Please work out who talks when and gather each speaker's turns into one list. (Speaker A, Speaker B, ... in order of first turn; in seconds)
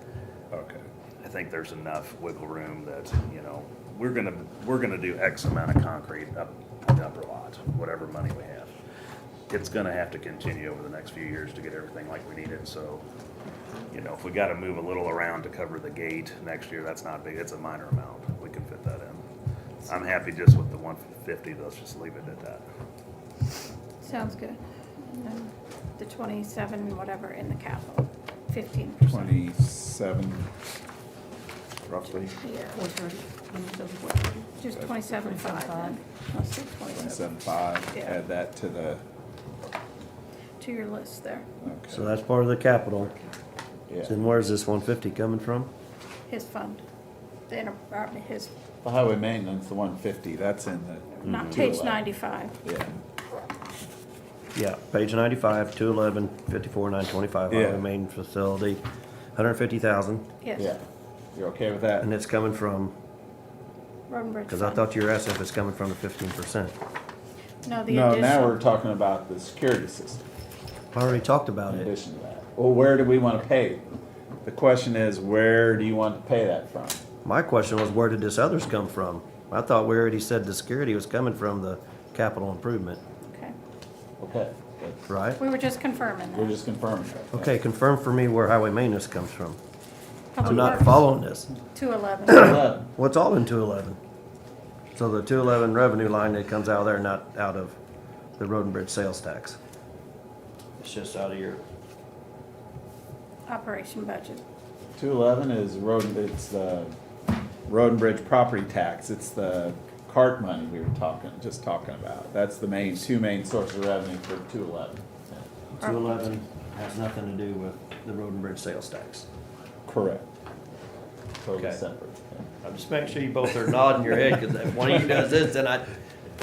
Speaker A: 0.5-0.8, 29.1-30.5, 31.9-32.3, 36.9-39.0, 41.6-42.1, 43.9-44.2, 48.8-52.0, 52.6-52.9, 57.5-57.9, 61.3-62.1, 67.9-70.2, 71.0-73.8, 74.4-77.0, 84.2-85.1, 86.3-87.5, 92.3-92.9, 105.0-107.0, 107.7-115.5, 119.8-120.2, 121.4-122.6
Speaker B: 1.2-8.7, 9.5-13.0, 13.9-19.2, 19.9-22.6, 51.2-51.6
Speaker C: 24.0-29.3, 32.0-32.9, 34.6-37.2, 40.6-41.5, 46.3-46.8, 47.5-48.5, 51.1-52.6, 60.4-60.7, 64.1-64.8, 67.6-68.5, 83.2-83.5, 85.4-86.5, 90.3-92.7, 103.5-104.4, 115.8-116.3
Speaker D: 32.7-34.5, 35.0-36.0
Speaker E: 41.9-43.1, 44.0-45.7, 54.5-58.8, 59.3-60.3, 62.0-62.9, 64.5-66.7, 70.9-71.9, 77.2-83.0, 85.1-85.4, 87.3-89.6, 90.4-91.5, 92.2-94.0, 94.9-97.8, 98.4-99.6, 100.8-101.6, 115.8-119.3, 122.6-125.8